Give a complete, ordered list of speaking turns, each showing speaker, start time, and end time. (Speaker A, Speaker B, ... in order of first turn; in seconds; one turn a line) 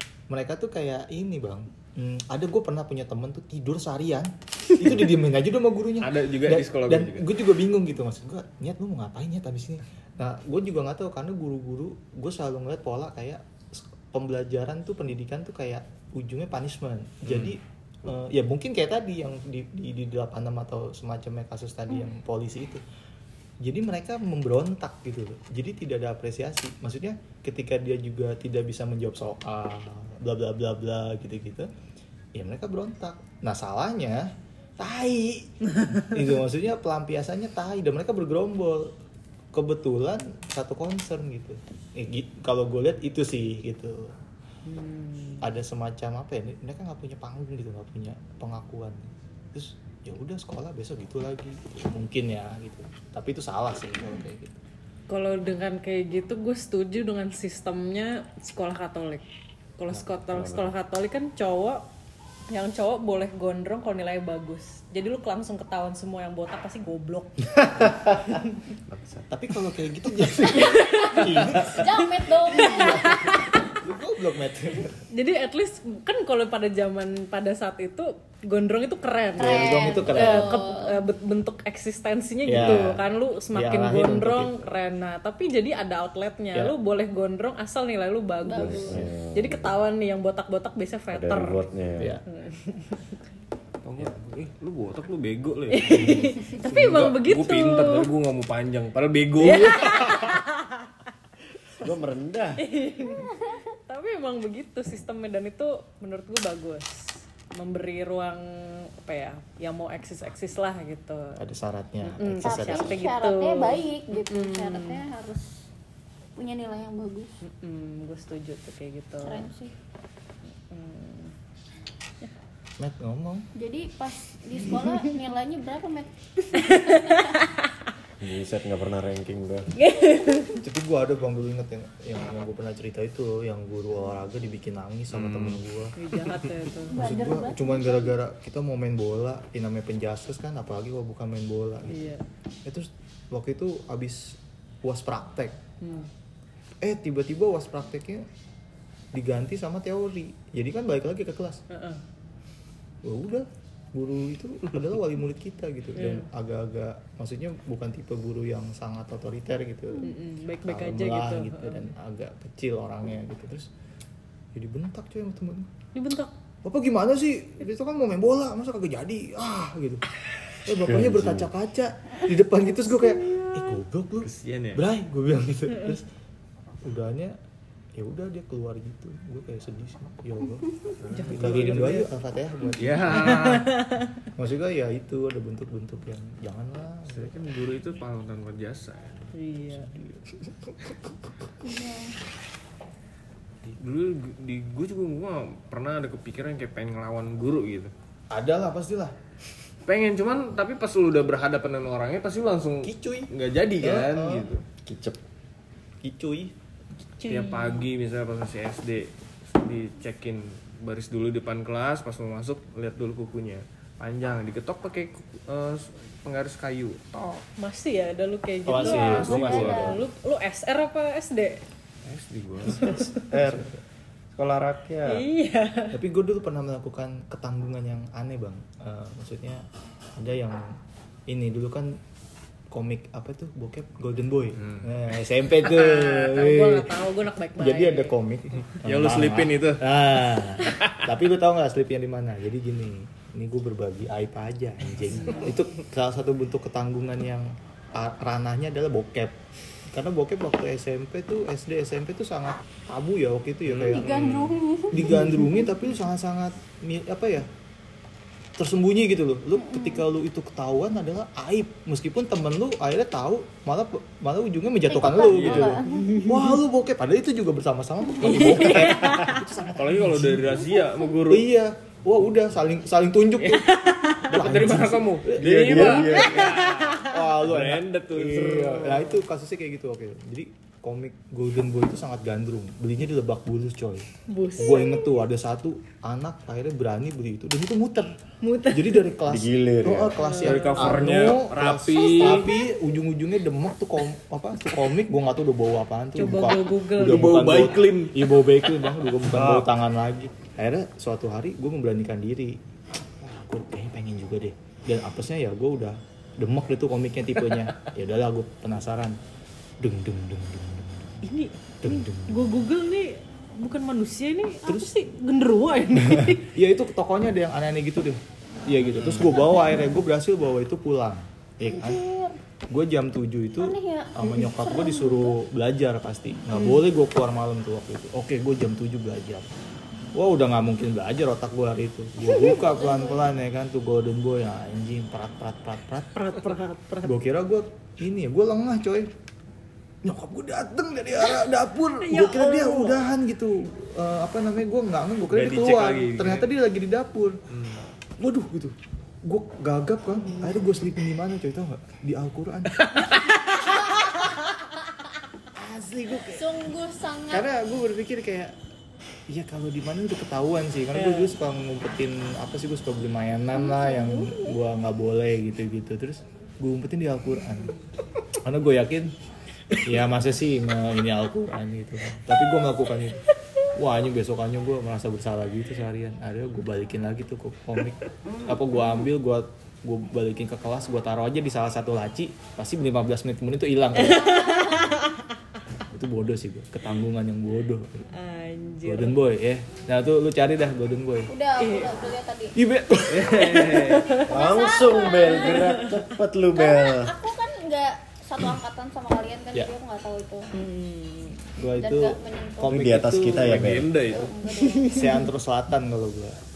Speaker A: 0.3-22.8
Speaker B: 6.0-7.3
Speaker A: 23.6-31.7
Speaker A: 32.4-38.9
Speaker A: 39.5-44.2
Speaker C: 44.7-45.5
Speaker A: 45.4-54.6
Speaker C: 55.1-59.2
Speaker C: 59.8-61.9
Speaker D: 60.3-60.7
Speaker C: 62.5-67.5
Speaker D: 68.9-69.3
Speaker A: 69.3-75.0
Speaker E: 70.5-73.3
Speaker C: 70.6-71.4
Speaker C: 72.5-73.6
Speaker C: 75.1-91.6
Speaker E: 79.4-81.0
Speaker A: 79.4-80.6
Speaker A: 82.5-84.7
Speaker D: 82.5-83.0
Speaker E: 88.4-89.1
Speaker D: 88.6-89.8
Speaker D: 91.1-92.2
Speaker C: 92.3-93.1
Speaker B: 93.8-100.0
Speaker C: 95.7-98.1
Speaker C: 99.4-100.9
Speaker A: 99.6-99.9
Speaker D: 101.8-102.7
Speaker C: 102.6-111.4
Speaker E: 103.1-103.6
Speaker A: 111.4-113.0
Speaker C: 112.1-115.0
Speaker E: 112.4-115.6
Speaker E: 116.4-117.3
Speaker C: 117.4-119.5
Speaker E: 119.2-119.7
Speaker C: 120.6-121.3
Speaker A: 122.8-123.5
Speaker E: 123.5-127.4
Speaker C: 126.5-127.5
Speaker D: 128.2-129.7
Speaker C: 129.8-130.6
Speaker A: 130.6-135.9
Speaker B: 135.1-135.6
Speaker C: 136.0-137.0
Speaker B: 136.3-136.6
Speaker E: 136.9-138.2
Speaker A: 137.0-142.1
Speaker C: 141.9-142.2
Speaker A: 142.7-145.6
Speaker C: 145.8-146.1
Speaker A: 146.8-148.3
Speaker A: 149.1-151.6
Speaker C: 151.7-152.0
Speaker A: 153.0-160.1
Speaker C: 156.0-156.3
Speaker C: 160.0-161.9
Speaker A: 160.7-163.7
Speaker A: 164.5-165.7
Speaker C: 165.9-166.3
Speaker A: 166.6-170.0
Speaker A: 170.7-176.1
Speaker D: 170.7-171.5
Speaker B: 174.2-174.8
Speaker A: 176.8-177.4
Speaker A: 178.0-180.8
Speaker B: 181.0-182.0
Speaker C: 181.1-182.1
Speaker A: 181.3-183.5
Speaker B: 182.8-183.7
Speaker C: 183.1-184.1
Speaker A: 184.3-187.4
Speaker B: 187.1-189.3
Speaker C: 189.3-189.9
Speaker A: 189.9-191.0
Speaker E: 191.6-192.2
Speaker B: 193.8-197.9
Speaker A: 198.3-199.2
Speaker B: 199.9-204.7
Speaker A: 202.8-203.3
Speaker A: 203.8-204.5
Speaker D: 204.8-205.2
Speaker A: 206.0-206.5
Speaker C: 207.2-207.8
Speaker B: 207.3-217.4
Speaker C: 217.6-221.6
Speaker A: 218.7-219.9
Speaker E: 218.8-220.0
Speaker B: 218.9-220.0
Speaker B: 222.0-223.3
Speaker C: 222.8-223.2
Speaker D: 223.2-223.7
Speaker A: 223.4-223.7
Speaker D: 224.3-225.3
Speaker C: 225.1-226.0
Speaker A: 225.9-229.7
Speaker A: 230.2-232.0
Speaker A: 232.7-237.0
Speaker B: 234.6-234.9
Speaker C: 235.6-238.1
Speaker A: 237.6-249.4
Speaker B: 238.8-239.8
Speaker B: 240.8-241.0
Speaker A: 249.9-254.2
Speaker B: 253.7-254.6
Speaker E: 253.9-255.7
Speaker A: 254.9-257.5
Speaker A: 258.6-270.7
Speaker E: 259.6-260.1
Speaker E: 264.9-266.2
Speaker B: 265.3-265.8
Speaker C: 266.0-266.4
Speaker C: 268.2-269.4
Speaker B: 268.3-271.5
Speaker A: 271.3-273.7
Speaker C: 273.5-274.3
Speaker B: 274.3-279.2
Speaker A: 274.3-276.2
Speaker D: 275.4-276.4
Speaker C: 276.2-277.1
Speaker A: 277.0-288.2
Speaker C: 284.3-285.1
Speaker C: 288.4-289.1
Speaker A: 288.7-309.2
Speaker D: 289.3-290.2
Speaker C: 290.2-291.1
Speaker B: 290.4-292.6
Speaker C: 296.1-297.5
Speaker B: 297.0-299.6
Speaker D: 299.3-299.7
Speaker A: 309.8-311.2
Speaker C: 311.2-316.5
Speaker A: 311.8-312.6
Speaker A: 314.7-314.9
Speaker A: 316.1-322.0
Speaker E: 321.7-322.4
Speaker A: 322.7-329.5
Speaker E: 323.6-325.4
Speaker C: 326.5-326.8
Speaker A: 330.1-336.4
Speaker E: 332.2-333.3
Speaker C: 336.1-337.2
Speaker A: 337.1-339.1
Speaker A: 340.0-347.4
Speaker C: 342.0-343.1
Speaker B: 345.3-346.5
Speaker B: 347.5-347.8
Speaker A: 348.2-352.9
Speaker B: 352.8-353.2
Speaker C: 353.5-354.3
Speaker A: 355.5-356.6
Speaker E: 356.2-357.5
Speaker A: 357.3-358.6
Speaker A: 359.3-367.7
Speaker C: 360.9-361.3
Speaker E: 363.5-364.6
Speaker A: 368.4-369.1
Speaker A: 369.9-373.2
Speaker A: 373.7-384.3
Speaker E: 384.0-385.0
Speaker C: 384.0-385.2
Speaker A: 385.9-388.1
Speaker C: 388.1-389.2
Speaker A: 388.9-391.3
Speaker E: 391.3-392.6
Speaker C: 391.6-391.9
Speaker A: 392.6-393.9
Speaker B: 393.1-394.1
Speaker C: 393.3-394.4
Speaker E: 394.1-395.8
Speaker D: 394.3-397.2
Speaker C: 395.3-396.1
Speaker E: 396.5-400.5
Speaker C: 400.5-401.6
Speaker A: 401.6-403.9
Speaker E: 401.8-403.0
Speaker D: 402.6-404.0
Speaker B: 403.3-404.3
Speaker E: 404.0-405.0
Speaker C: 404.5-405.3
Speaker A: 404.9-406.4